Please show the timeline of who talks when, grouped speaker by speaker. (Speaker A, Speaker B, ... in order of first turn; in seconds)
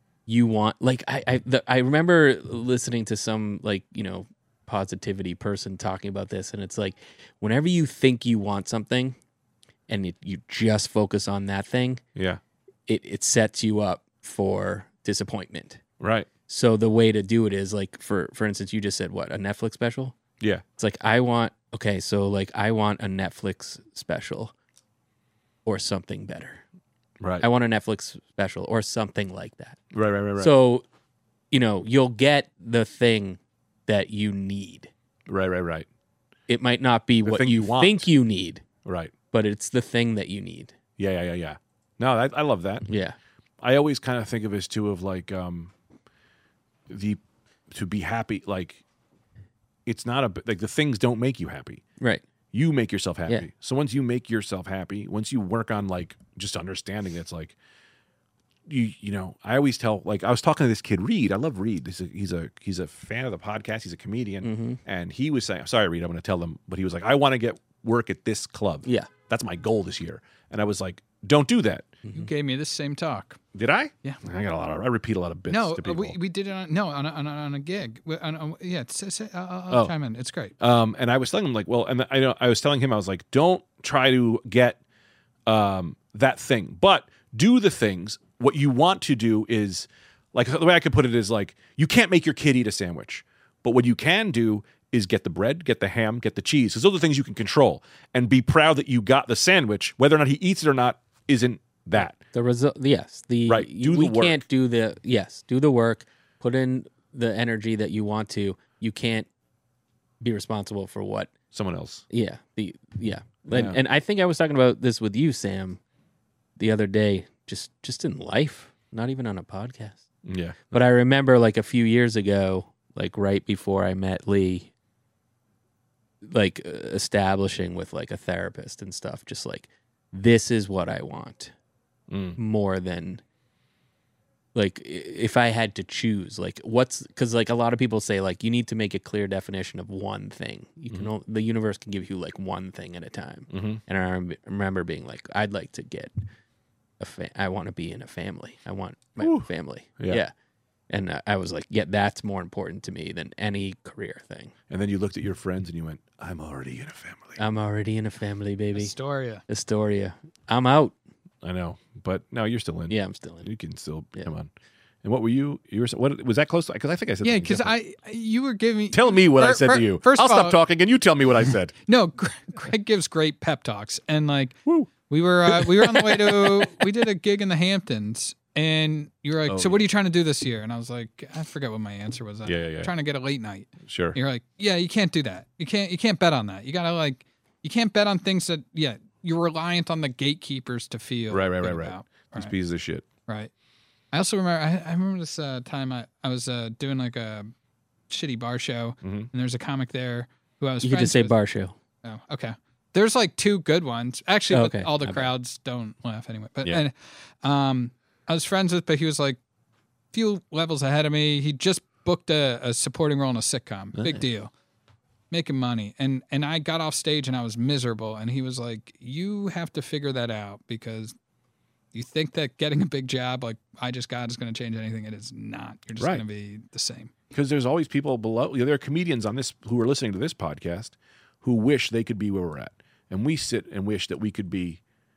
Speaker A: 0.3-9.2, 9.9-12.0, 12.9-15.8, 16.5-20.2, 20.8-24.5, 25.6-26.6, 27.4-29.8, 30.4-30.8, 31.5-34.9, 36.5-38.7, 39.3-40.8, 42.9-43.2, 64.4-64.8, 102.1-109.3, 110.2-111.3, 112.1-115.8, 116.6-120.0, 120.7-124.7, 126.2-131.5, 132.4-133.2, 134.6-146.3, 147.0-150.3, 150.9-154.5, 157.4-158.9, 159.5-160.9, 162.9-163.5, 200.8-201.8, 204.5-205.3
Speaker B: 12.2-12.4, 16.0-16.3, 27.2-27.5, 29.9-30.5, 35.3-35.9, 37.2-38.1, 38.9-39.1, 41.0-42.9, 43.6-45.7, 46.9-47.2, 47.7-48.8, 49.9-51.8, 52.5-57.6, 58.7-71.9, 73.5-76.2, 80.6-84.8, 85.5-102.2, 103.5-104.4, 111.5-112.0, 113.5-113.8, 120.2-120.8, 132.1-132.4, 143.5-143.8, 149.2-150.2, 154.7-157.4, 161.4-164.5, 165.0-167.7, 168.9-171.7, 174.7-174.9, 175.5-176.8, 179.5-179.9, 182.4-182.9, 183.8-184.2, 191.3-193.1, 199.0-199.3, 213.9-214.2, 226.0-226.2, 227.3-234.8
Speaker C: 72.1-73.4, 75.5-80.5, 158.8-159.4, 167.2-170.6, 171.9-192.5, 194.1-197.5, 198.1-201.4, 202.0-209.4, 210.1-214.5, 215.3-221.1, 221.9-227.1